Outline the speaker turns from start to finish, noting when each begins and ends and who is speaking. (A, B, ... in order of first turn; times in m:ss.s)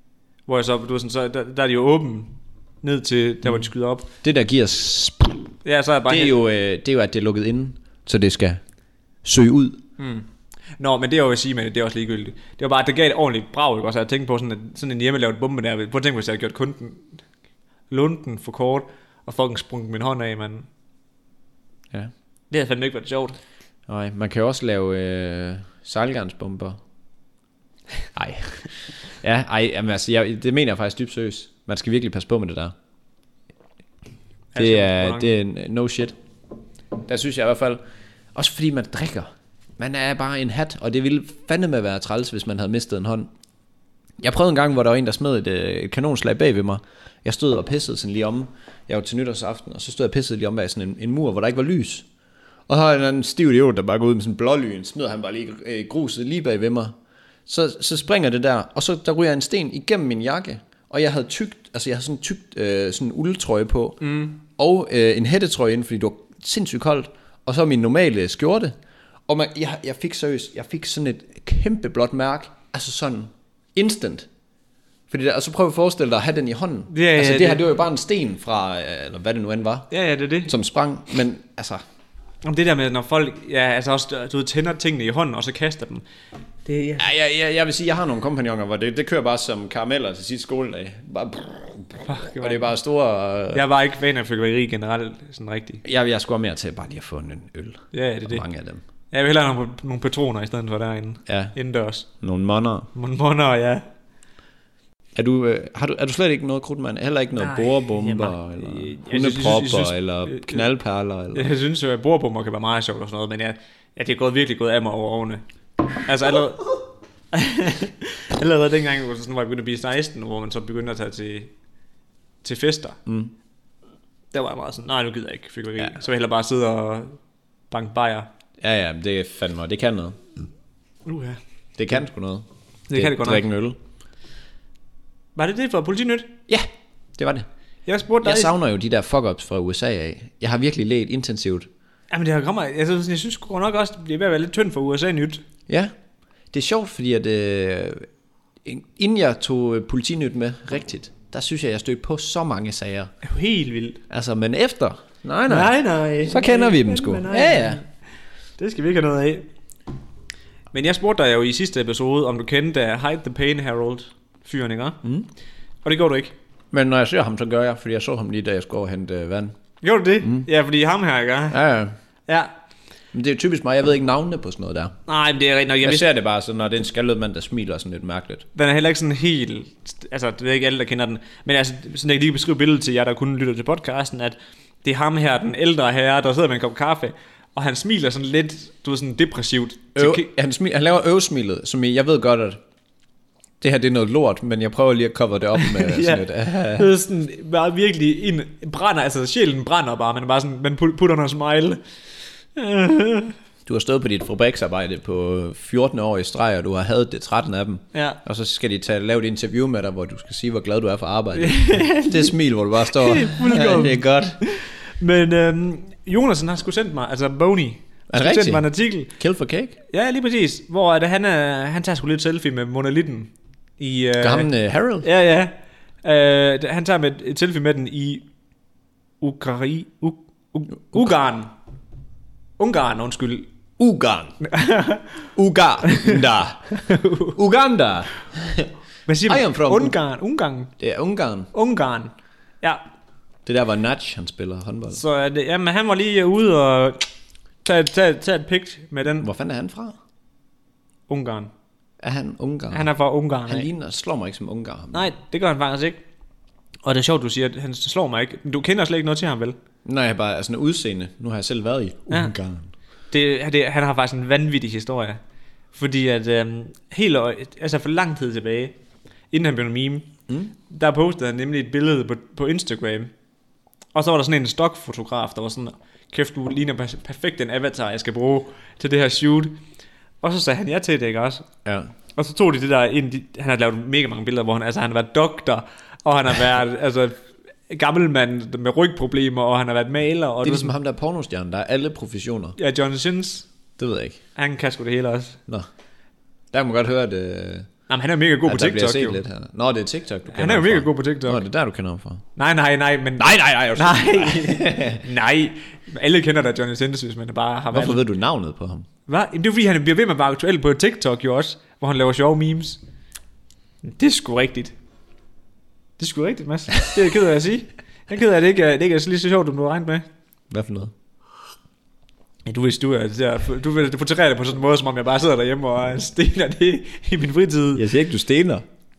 0:00.5-0:04.1 A
0:04.2-0:05.5 B
0:05.6-0:06.4 A
0:06.1-0:08.6 B
0:09.2-0:09.8 B
0:10.0-0:10.3 A
0:10.8-0:17.1 A
0:17.9-0:20.7 A
0:22.5-0:23.4 A
0:23.9-0:26.8 B
0:28.2-0:32.7 B
0:34.5-0:35.3 A
0:34.6-0:36.2 B
0:37.0-0:37.8 B
0:38.4-0:39.3 B
0:39.8-0:43.3 B
0:44.2-0:52.1 B
0:52.7-0:57.0 B
0:57.5-1:08.8 B
1:04.0-1:04.4 A
1:09.3-1:14.3 B
1:15.1-1:19.9 B
1:16.9-1:17.6 A
1:19.9-1:20.5 A
1:20.5-1:21.8 B
1:22.4-1:26.0 A
1:26.6-1:27.1 A
1:27.0-1:33.6 B
1:32.0-1:32.6 A
1:33.5-1:35.8 A
1:35.8-1:38.8 B
1:37.9-1:38.4 A
1:39.1-1:42.1 A
1:41.3-1:41.6 B
1:42.2-1:42.9 B
1:43.0-1:43.8 A
1:45.2-1:51.5 B
1:47.4-1:50.6 A
1:51.3-1:55.4 A
1:56.1-1:56.8 A
1:57.3-2:01.5 A
2:02.4-2:03.0 A
2:03.1-2:03.3 B
2:04.3-2:07.2 A
2:07.7-2:08.3 A
2:08.6-2:10.2 B
2:11.1-2:11.4 A
2:11.8-2:13.8 B
2:12.9-2:13.4 A
2:15.4-2:16.3 A
2:16.5-2:17.5 B
2:17.9-2:18.5 A
2:18.2-2:21.7 B
2:22.1-2:25.4 A
2:25.7-2:25.9 B
2:26.5-2:28.1 B
2:28.6-2:33.1 B
2:33.2-2:34.0 A
2:34.1-2:35.7 B
2:35.5-2:37.8 A
2:36.3-2:37.8 B
2:38.6-2:39.4 A
2:40.7-2:45.0 A
2:45.8-2:46.3 A
2:46.7-2:49.6 B
2:49.8-2:51.6 A
2:50.2-2:50.5 B
2:51.5-2:51.9 B
2:53.1-2:55.0 B
2:55.1-2:56.1 A
2:55.8-2:58.5 B
2:58.6-3:10.3 A
3:10.0-3:12.6 B
3:13.6-3:16.9 B
3:15.6-3:21.8 A
3:22.6-3:23.4 A
3:23.7-3:34.4 B
3:27.9-3:28.2 A
3:31.4-3:32.3 A
3:32.9-3:39.1 A
3:38.1-3:39.8 B
3:39.9-3:44.5 A
3:44.2-3:45.1 B
3:45.0-3:48.2 A
3:49.2-3:51.5 A
3:52.6-3:53.5 A
3:53.8-3:54.4 B
3:54.4-3:55.3 A
3:55.4-3:58.7 B
3:55.8-3:56.2 A
3:56.7-3:57.4 A
3:59.1-4:00.7 A
3:59.2-4:00.0 B
4:00.8-4:01.5 B
4:01.5-4:02.8 A
4:03.5-4:05.0 B
4:04.9-4:07.1 A
4:07.6-4:09.3 A
4:09.2-4:10.0 B
4:11.1-4:11.5 A
4:12.0-4:12.9 B
4:12.7-4:13.7 A
4:13.5-4:15.1 B
4:14.9-4:16.0 A
4:16.8-4:19.6 A
4:19.8-4:22.7 B
4:23.1-4:25.2 A
4:25.7-4:28.8 A
4:29.3-4:30.1 A
4:30.7-4:33.1 A
4:33.9-4:39.6 A
4:40.2-4:41.5 A
4:41.6-4:41.9 B
4:42.2-4:50.7 A
4:50.4-4:52.6 B
4:52.6-4:53.5 A
4:53.8-4:54.2 B
4:54.4-4:55.4 A
4:56.5-4:57.7 B
4:57.9-4:59.2 A
4:58.4-5:02.2 B
5:00.3-5:01.4 A
5:02.4-5:08.0 A
5:03.2-5:05.0 B
5:07.7-5:08.9 B
5:09.1-5:12.8 A
5:13.8-5:14.8 A
5:16.0-5:20.0 A
5:20.5-5:20.9 B
5:22.5-5:27.9 A
5:27.8-5:28.6 B